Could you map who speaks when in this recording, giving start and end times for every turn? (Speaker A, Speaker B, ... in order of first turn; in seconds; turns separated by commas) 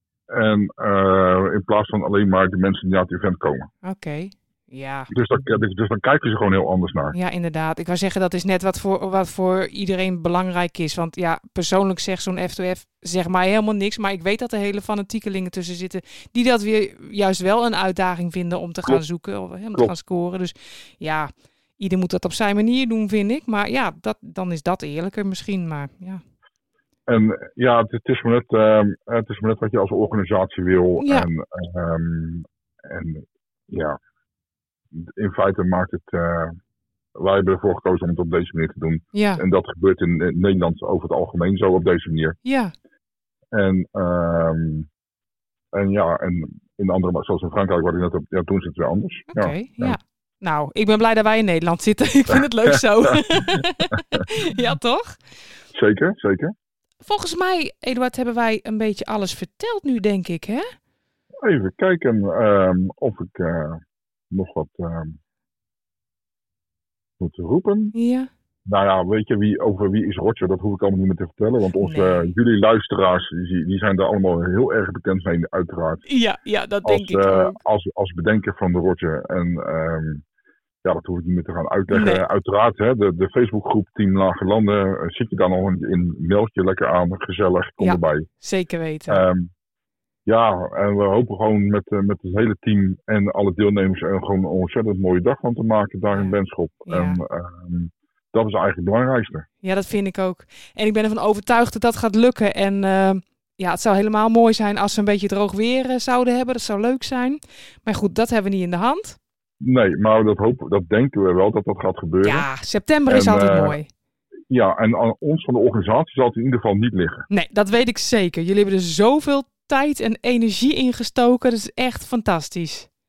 Speaker A: 0.3-3.7, Speaker B: 3.8-5.1, Speaker A: 5.1-7.2, Speaker B: 7.1-26.2, Speaker A: 27.1-34.0, Speaker B: 31.0-31.3, Speaker A: 34.9-36.6, Speaker A: 37.2-42.4, Speaker B: 39.1-39.4, Speaker B: 42.5-42.7, Speaker A: 43.5-44.9, Speaker A: 45.7-50.0, Speaker B: 49.3-55.2, Speaker A: 52.3-53.1, Speaker A: 55.7-56.5, Speaker B: 57.0-60.6, Speaker A: 61.4-65.2, Speaker A: 67.2-67.9, Speaker B: 68.0-68.3, Speaker A: 68.7-76.0, Speaker B: 71.8-72.3, Speaker B: 76.1-77.6, Speaker A: 76.8-80.2, Speaker A: 80.8-88.3, Speaker B: 81.9-82.2, Speaker B: 87.8-89.2, Speaker A: 89.1-89.5, Speaker A: 90.3-99.5, Speaker B: 96.1-96.4, Speaker B: 96.9-97.2, Speaker B: 99.6-109.2, Speaker A: 109.6-112.5, Speaker B: 112.2-113.9, Speaker A: 113.1-113.8, Speaker A: 114.5-117.2, Speaker B: 117.3-122.9